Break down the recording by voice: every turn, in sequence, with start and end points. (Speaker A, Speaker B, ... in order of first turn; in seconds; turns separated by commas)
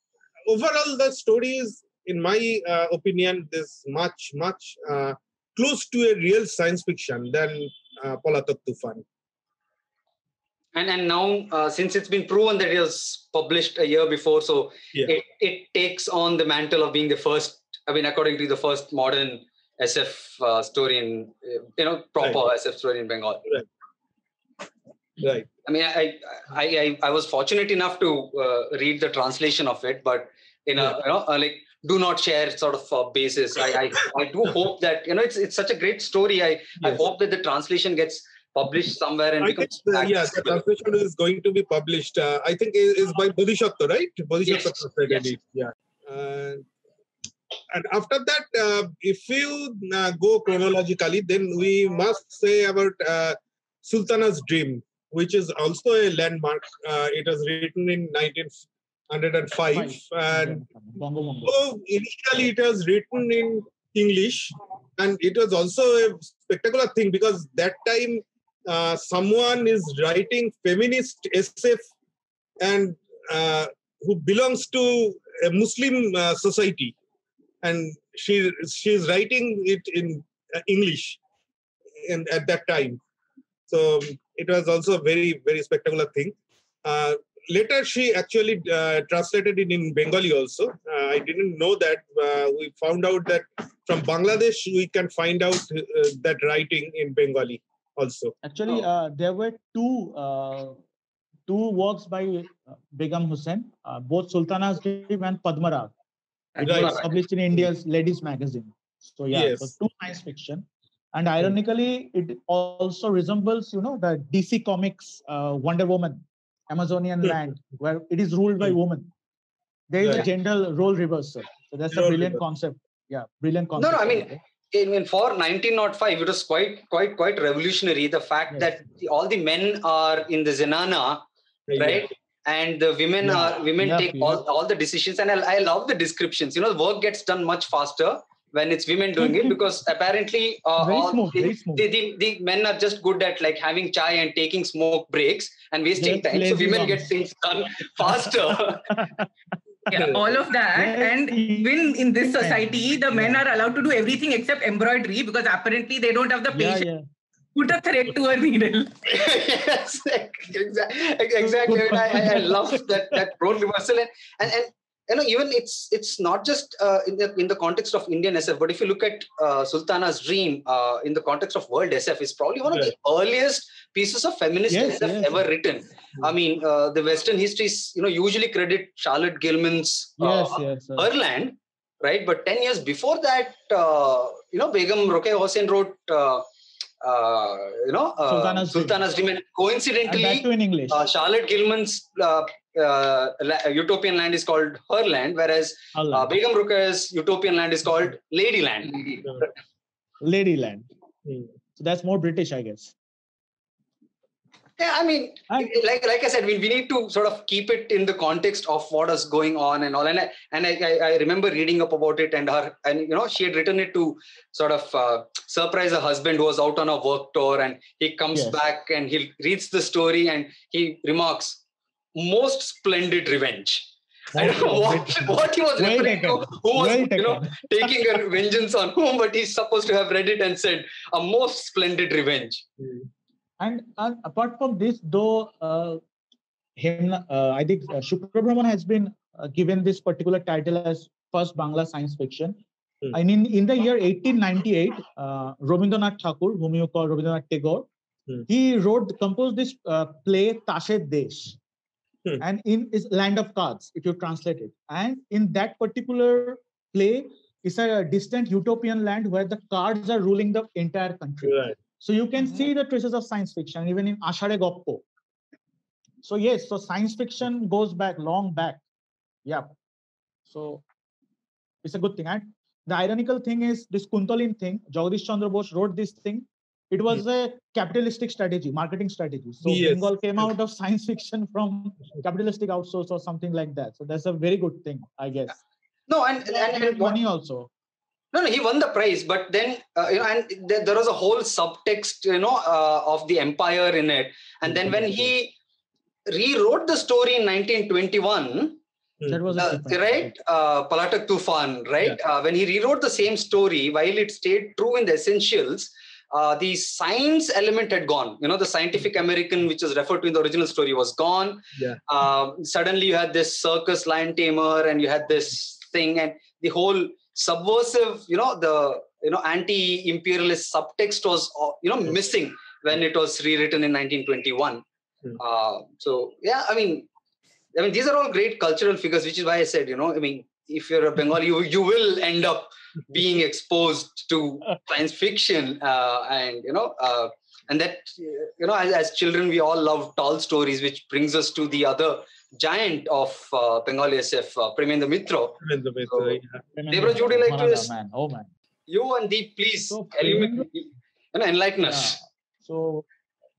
Speaker A: 0.5-9.0, Speaker B: 10.7-23.5, Speaker A: 25.2-25.5, Speaker B: 25.6-40.6, Speaker A: 39.4-46.6, Speaker B: 44.5-45.3, Speaker A: 47.7-60.6, Speaker C: 59.7-61.5, Speaker A: 61.5-71.9, Speaker A: 72.6-76.9, Speaker A: 77.6-81.2, Speaker A: 82.0-83.0, Speaker A: 83.7-98.3, Speaker C: 98.4-100.8, Speaker C: 101.5-105.9, Speaker B: 106.5-107.1, Speaker A: 106.6-107.0, Speaker C: 106.6-119.1, Speaker A: 109.3-109.7, Speaker C: 119.9-124.4, Speaker A: 120.0-120.3, Speaker A: 121.9-122.4, Speaker B: 123.8-131.2, Speaker A: 131.7-132.1, Speaker B: 131.8-148.9, Speaker C: 133.2-134.4, Speaker C: 139.2-139.6, Speaker C: 140.8-141.8, Speaker C: 146.0-147.1, Speaker C: 148.0-149.3, Speaker D: 149.9-156.8, Speaker A: 149.9-150.2, Speaker C: 150.7-151.7, Speaker C: 152.4-153.4, Speaker C: 156.5-157.0, Speaker D: 157.5-159.0, Speaker B: 159.1-186.4, Speaker C: 161.4-162.9, Speaker C: 174.7-175.4, Speaker C: 180.2-181.1, Speaker B: 187.0-199.2, Speaker C: 188.3-189.0, Speaker C: 190.0-191.0, Speaker C: 195.9-196.3, Speaker C: 200.2-200.9, Speaker C: 201.8-202.9, Speaker B: 204.8-221.6, Speaker C: 218.3-218.6, Speaker B: 222.1-232.6, Speaker C: 224.3-228.1, Speaker C: 233.6-236.0, Speaker C: 236.8-242.6, Speaker C: 243.1-247.9, Speaker C: 248.5-251.6, Speaker C: 252.4-265.0, Speaker A: 261.4-261.8, Speaker C: 266.2-268.8, Speaker C: 269.4-269.7, Speaker C: 270.5-270.8, Speaker C: 271.8-285.6, Speaker A: 279.6-280.5, Speaker B: 286.1-287.2, Speaker C: 286.5-287.7, Speaker B: 288.3-295.5, Speaker C: 294.6-295.3, Speaker B: 296.3-298.8, Speaker C: 299.3-300.3, Speaker B: 299.6-324.8, Speaker B: 325.4-327.1, Speaker B: 327.7-345.6, Speaker A: 345.6-346.6, Speaker B: 346.1-347.9, Speaker C: 346.7-348.5, Speaker B: 348.9-352.2, Speaker C: 349.9-350.7, Speaker C: 351.8-353.1